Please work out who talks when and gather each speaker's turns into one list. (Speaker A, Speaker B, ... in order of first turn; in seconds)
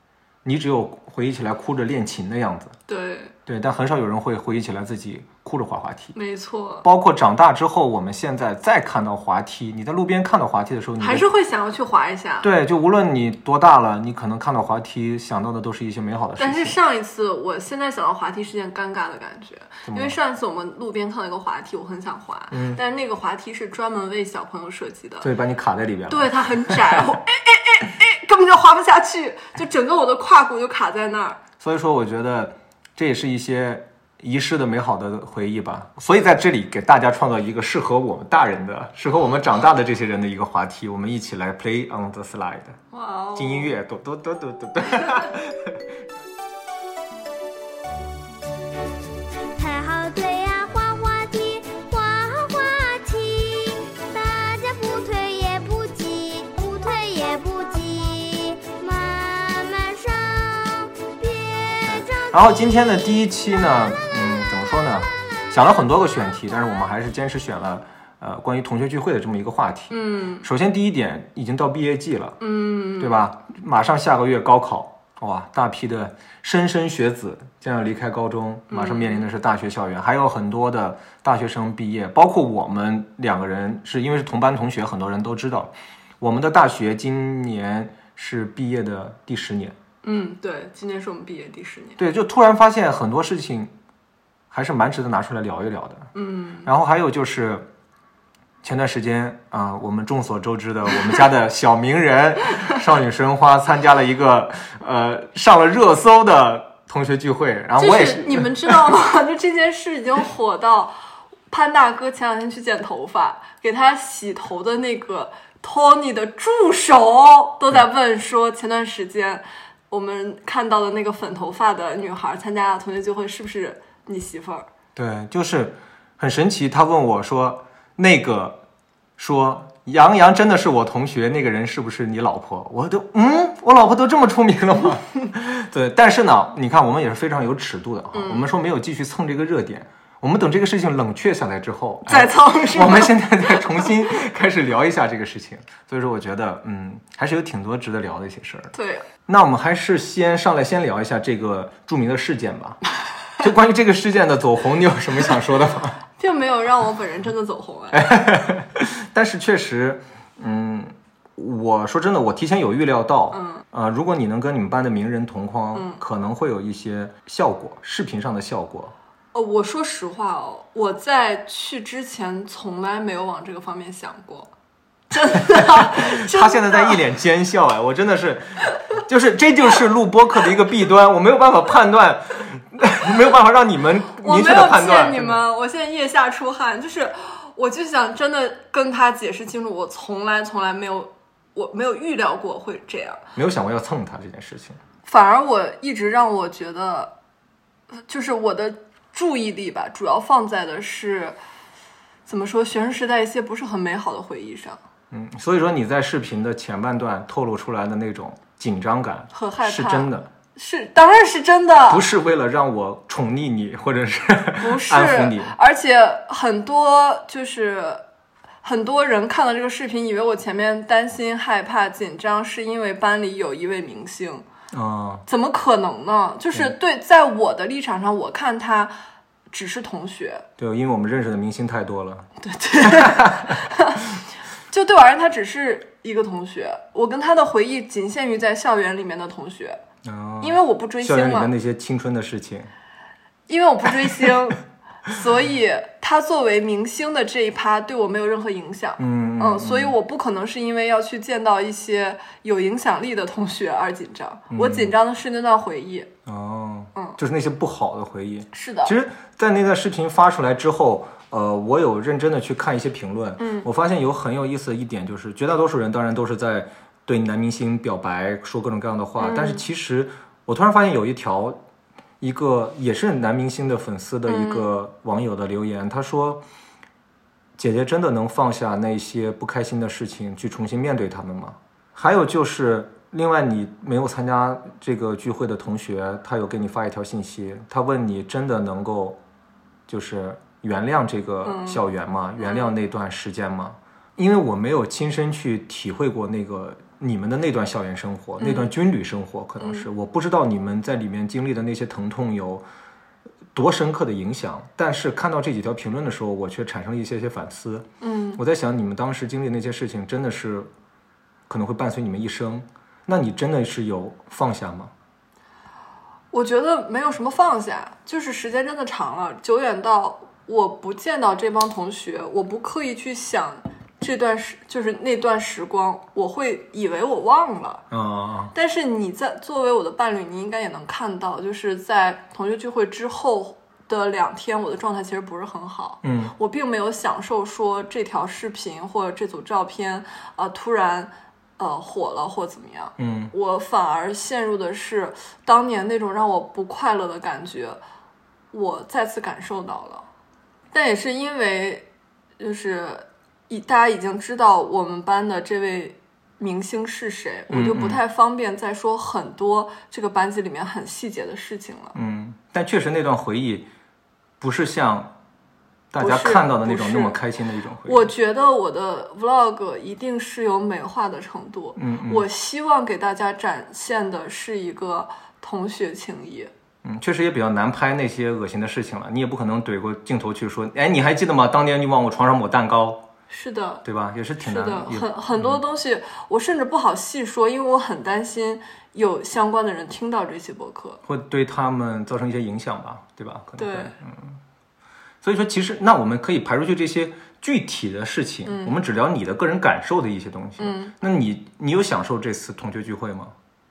Speaker A: 0.4-2.7, 3.5-6.1, 6.8-11.3, 12.4-16.7, 19.9-20.1, 22.5-22.8, 25.2-27.0, 31.6-42.8, 43.3-45.8, 61.8-72.4, 73.0-89.8, 92.0-93.7, 94.5-96.1, 96.6-97.7, 98.6-108.9, 125.0-128.6, 129.2-148.7, 149.2-152.8, 153.4-156.0, 157.9-168.9, 175.5-185.4, 193.3-194.8, 205.1-210.3, 211.9-215.5, 224.7-225.2, 230.6-232.3, 232.8-233.5, 240.0-242.7, 249.0-249.9, 254.5-254.9, 256.2-271.6, 272.2-276.4, 277.6-289.2, 289.9-302.6, 303.5-310.7, 311.5-314.9, 327.9-328.5, 336.0-336.3, 343.0-343.3, 357.5-358.0, 361.9-363.7, 364.4-365.1, 365.9-368.1, 371.8-372.3, 376.8-383.1, 383.8-385.6, 391.1-394.4, 395.2-403.3
Speaker B: 2.9-3.3, 6.1-6.8, 11.0-12.5, 16.4-25.3, 26.1-31.4, 42.9-43.7, 69.9-70.5, 72.4-73.3, 78.7-79.2, 90.0-92.0, 96.1-96.7, 107.8-110.9, 111.5-124.7, 138.1-138.4, 142.1-143.9, 148.7-149.1, 156.2-158.1, 163.3-163.6, 165.7-166.0, 169.3-174.5, 175.1-177.0, 184.2-193.2, 195.1-197.1, 197.9-201.3, 202.2-204.8, 209.3-212.1, 214.6-218.0, 218.6-224.4, 225.3-228.9, 229.5-230.4, 232.4-234.0, 234.7-239.8, 240.4-241.5, 243.5-256.1, 258.5-258.9, 263.4-263.7, 269.2-269.6, 274.3-274.7, 291.4-291.8, 292.4-292.7, 298.4-298.7, 299.6-299.9, 308.0-308.4, 316.3-327.8, 328.5-347.8, 348.5-350.1, 350.7-351.9, 352.4-361.9, 366.0-367.2, 367.8-376.5, 383.3-383.8, 384.4-391.0, 393.6-393.9, 398.4-398.7, 400.6-400.9
Speaker C: 49.5-63.0, 63.7-65.7